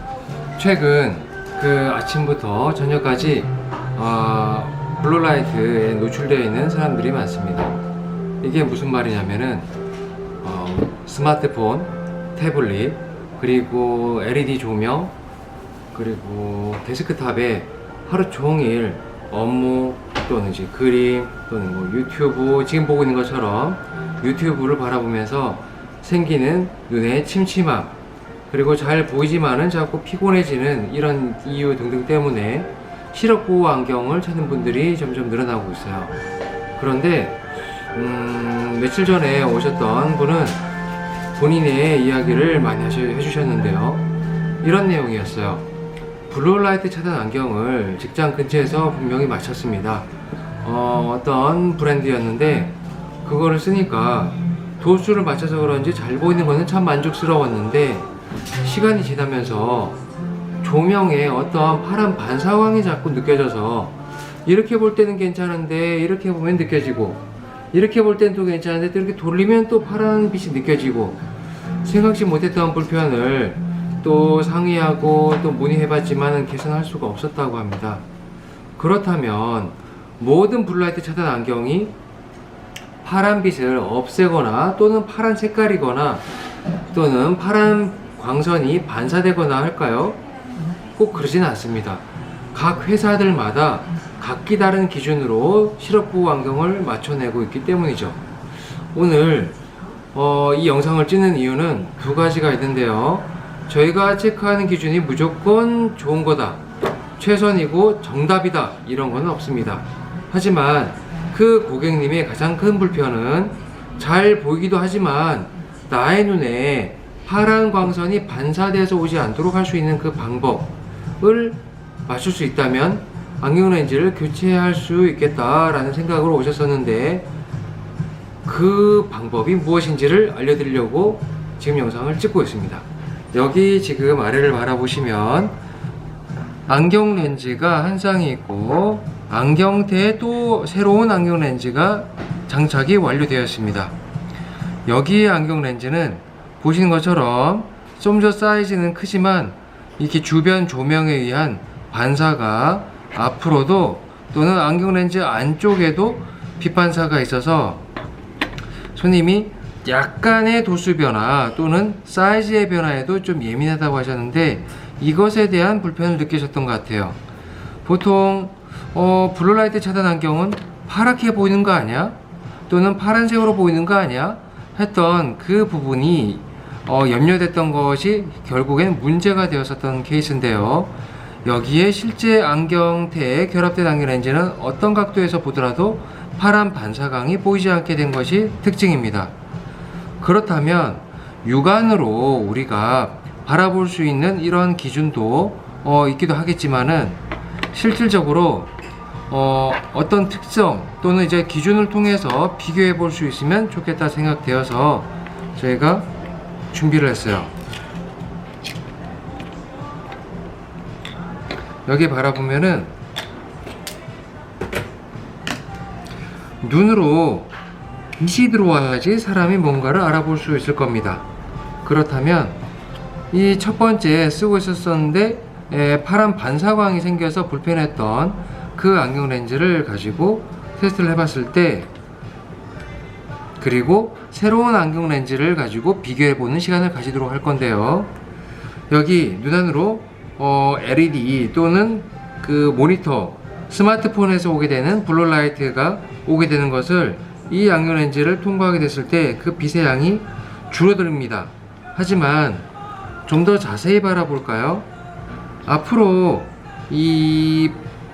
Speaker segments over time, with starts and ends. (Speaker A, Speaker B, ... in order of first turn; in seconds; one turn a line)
Speaker A: 0.6-7.8
Speaker A: 8.4-9.7
Speaker A: 10.4-15.1
Speaker A: 15.9-28.0
Speaker A: 28.5-36.1
Speaker A: 36.8-40.6
Speaker A: 41.3-44.0
Speaker A: 44.6-45.6
Speaker A: 46.3-50.1
Speaker A: 50.6-58.1
Speaker A: 58.6-60.0
Speaker A: 60.6-67.2
Speaker A: 67.7-71.2
Speaker A: 71.8-78.0
Speaker A: 78.8-81.9
Speaker A: 83.0-86.2
Speaker A: 86.9-90.2
Speaker A: 91.0-98.2
Speaker A: 98.9-99.6
Speaker A: 100.1-106.6
Speaker A: 107.2-127.3
Speaker A: 128.4-135.5
Speaker A: 136.7-143.9
Speaker A: 144.9-157.8
Speaker A: 158.9-167.2
Speaker A: 167.8-172.2
Speaker A: 172.7-189.3
Speaker A: 190.2-197.2
Speaker A: 197.7-198.7
Speaker A: 199.3-206.1
Speaker A: 206.7-207.5
Speaker A: 211.8-212.9
Speaker A: 216.6-217.5
Speaker A: 218.2-221.2
Speaker A: 221.8-222.6
Speaker A: 223.3-231.9
Speaker A: 233.6-238.1
Speaker A: 238.9-252.7
Speaker A: 253.2-254.8
Speaker A: 255.7-257.8